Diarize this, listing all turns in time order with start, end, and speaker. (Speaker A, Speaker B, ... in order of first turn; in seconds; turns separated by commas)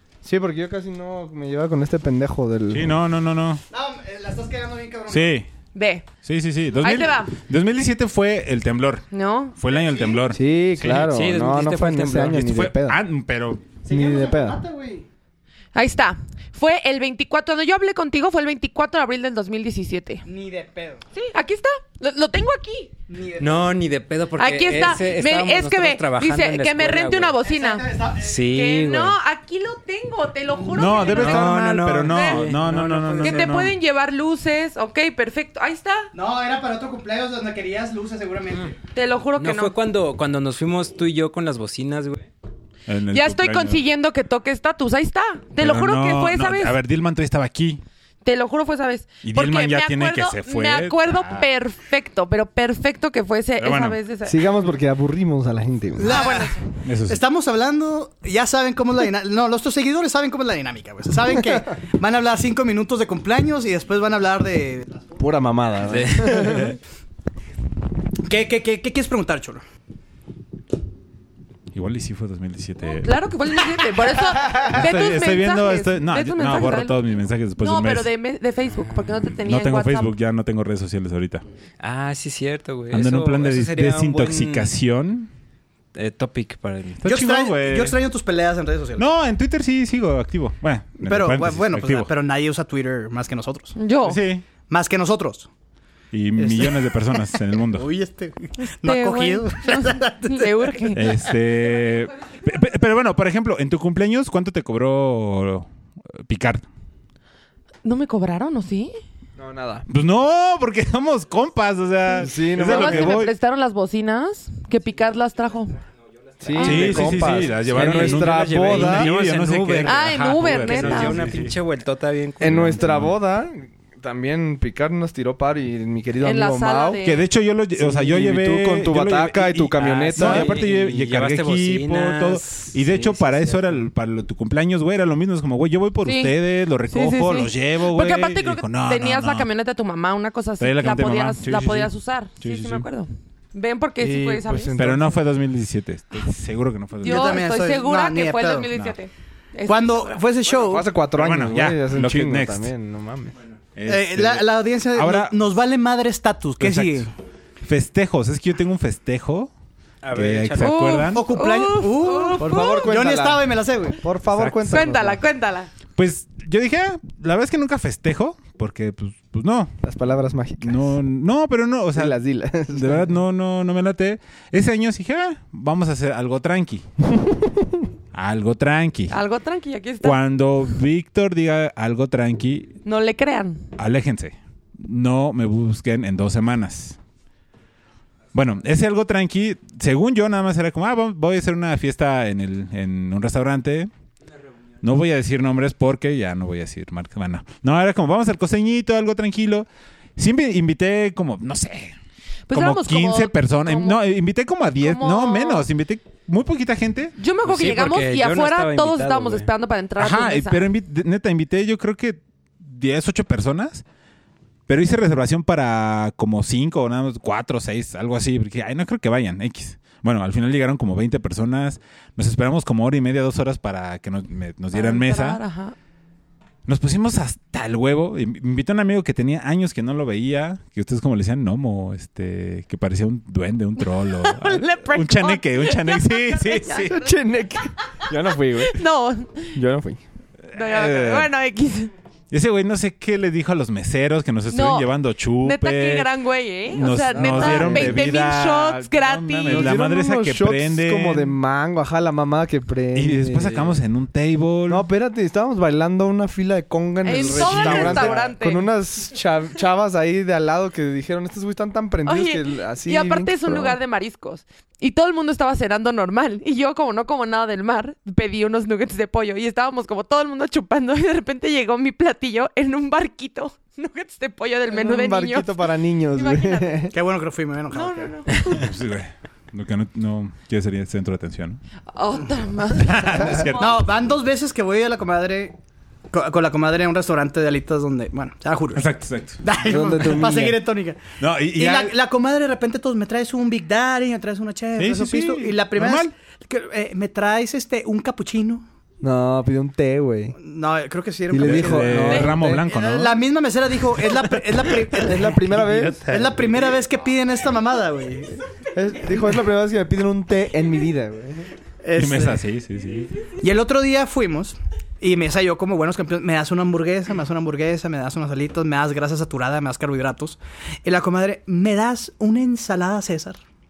Speaker A: 0.2-2.9, Speaker B: 2.7-3.6, Speaker C: 3.7-5.4, Speaker B: 5.1-5.5, Speaker D: 5.7-6.1, Speaker B: 6.2-11.1, Speaker D: 6.8-7.3, Speaker D: 9.1-9.6, Speaker C: 9.7-10.2, Speaker A: 10.3-13.0, Speaker E: 11.0-12.6, Speaker B: 12.4-13.7, Speaker C: 13.8-15.1, Speaker A: 13.9-14.6, Speaker D: 15.7-20.2, Speaker C: 20.3-21.0, Speaker D: 21.2-22.9, Speaker C: 23.1-23.7, Speaker E: 23.4-27.4, Speaker D: 24.4-27.9, Speaker C: 27.4-28.4, Speaker E: 28.2-29.2, Speaker D: 28.4-32.5, Speaker B: 30.7-33.8, Speaker E: 31.1-33.5, Speaker D: 33.2-36.1, Speaker C: 36.1-38.7, Speaker D: 38.9-39.7, Speaker E: 39.4-42.3, Speaker B: 42.9-43.8, Speaker D: 43.1-46.8, Speaker B: 45.6-47.8, Speaker D: 48.2-54.4, Speaker B: 49.2-51.5, Speaker B: 53.6-54.0, Speaker A: 54.2-56.2, Speaker C: 56.0-65.0, Speaker D: 56.0-56.6, Speaker B: 56.8-57.2, Speaker A: 65.2-66.8, Speaker E: 65.8-66.6, Speaker B: 66.3-66.8, Speaker C: 68.2-69.6, Speaker B: 71.7-73.2, Speaker D: 72.9-77.0, Speaker B: 74.5-78.1, Speaker D: 77.6-80.1, Speaker B: 79.4-81.5, Speaker E: 81.8-84.7, Speaker B: 82.9-85.3, Speaker E: 86.0-87.0, Speaker B: 87.0-88.0, Speaker C: 87.0-89.0, Speaker B: 89.0-92.1, Speaker C: 91.0-93.8, Speaker D: 93.8-94.2, Speaker B: 94.0-94.4, Speaker C: 94.7-95.5, Speaker B: 96.1-97.9, Speaker C: 96.4-101.0, Speaker D: 98.6-101.2, Speaker B: 100.9-106.7, Speaker D: 107.8-108.9, Speaker A: 109.4-109.8, Speaker B: 109.9-113.3, Speaker A: 112.1-113.2, Speaker D: 112.6-115.8, Speaker A: 116.4-119.1, Speaker D: 116.5-117.1, Speaker B: 116.6-121.5, Speaker E: 116.6-122.9, Speaker D: 119.8-121.3, Speaker A: 122.4-127.0, Speaker B: 122.5-123.1, Speaker D: 126.2-127.2, Speaker B: 127.0-139.5, Speaker A: 127.7-130.6, Speaker E: 129.8-133.9, Speaker D: 136.0-136.3, Speaker D: 136.9-145.0, Speaker B: 140.6-142.9, Speaker A: 144.0-145.2, Speaker B: 144.7-147.4, Speaker D: 147.0-150.1, Speaker C: 147.0-148.7, Speaker C: 149.7-150.9, Speaker A: 150.5-153.3, Speaker B: 151.1-152.7, Speaker B: 153.7-155.4, Speaker C: 153.9-157.1, Speaker B: 156.6-157.1, Speaker B: 157.6-159.5, Speaker E: 160.0-160.9, Speaker B: 160.1-161.3, Speaker D: 160.6-162.9, Speaker C: 161.1-164.0, Speaker A: 162.4-165.2, Speaker B: 164.3-164.9, Speaker D: 164.7-165.7, Speaker B: 165.9-169.7, Speaker A: 169.8-171.0, Speaker B: 170.6-172.2, Speaker A: 171.9-173.1, Speaker B: 172.7-176.9, Speaker A: 177.2-177.9, Speaker B: 178.1-179.2, Speaker D: 179.1-180.2, Speaker B: 180.0-182.8, Speaker D: 182.8-183.7, Speaker B: 183.8-187.0, Speaker B: 188.3-193.9, Speaker B: 194.8-202.0, Speaker D: 202.5-204.0, Speaker B: 202.5-207.2, Speaker D: 204.8-205.7, Speaker D: 207.2-210.7, Speaker E: 207.4-209.5, Speaker B: 210.0-213.8, Speaker B: 214.7-225.4, Speaker D: 224.7-225.7, Speaker B: 226.7-237.0, Speaker D: 233.8-237.2, Speaker A: 236.9-238.8, Speaker D: 238.6-239.6, Speaker A: 239.6-240.0, Speaker B: 240.5-241.3, Speaker D: 240.5-241.9, Speaker B: 242.3-246.1, Speaker D: 244.5-249.9, Speaker B: 246.7-251.3, Speaker A: 247.1-248.1, Speaker A: 249.5-253.8, Speaker B: 252.9-254.8, Speaker A: 254.7-263.8, Speaker D: 257.0-258.7, Speaker B: 257.2-258.3, Speaker D: 262.1-275.6, Speaker A: 274.7-276.9, Speaker D: 276.1-276.9, Speaker C: 276.9-278.2, Speaker D: 277.7-278.6, Speaker B: 278.4-281.6, Speaker D: 281.9-283.8, Speaker B: 282.7-283.8, Speaker C: 283.6-285.6, Speaker C: 286.1-288.9, Speaker B: 288.7-289.4, Speaker C: 289.4-298.6, Speaker A: 289.6-290.6, Speaker B: 291.2-291.9, Speaker B: 294.8-296.1, Speaker A: 299.0-300.4, Speaker C: 300.4-305.3, Speaker A: 301.3-302.7, Speaker B: 301.4-303.2, Speaker A: 304.9-306.0, Speaker E: 305.4-306.6, Speaker C: 306.1-308.4, Speaker A: 308.7-311.5, Speaker C: 311.8-312.4, Speaker B: 311.9-313.1, Speaker C: 313.4-323.4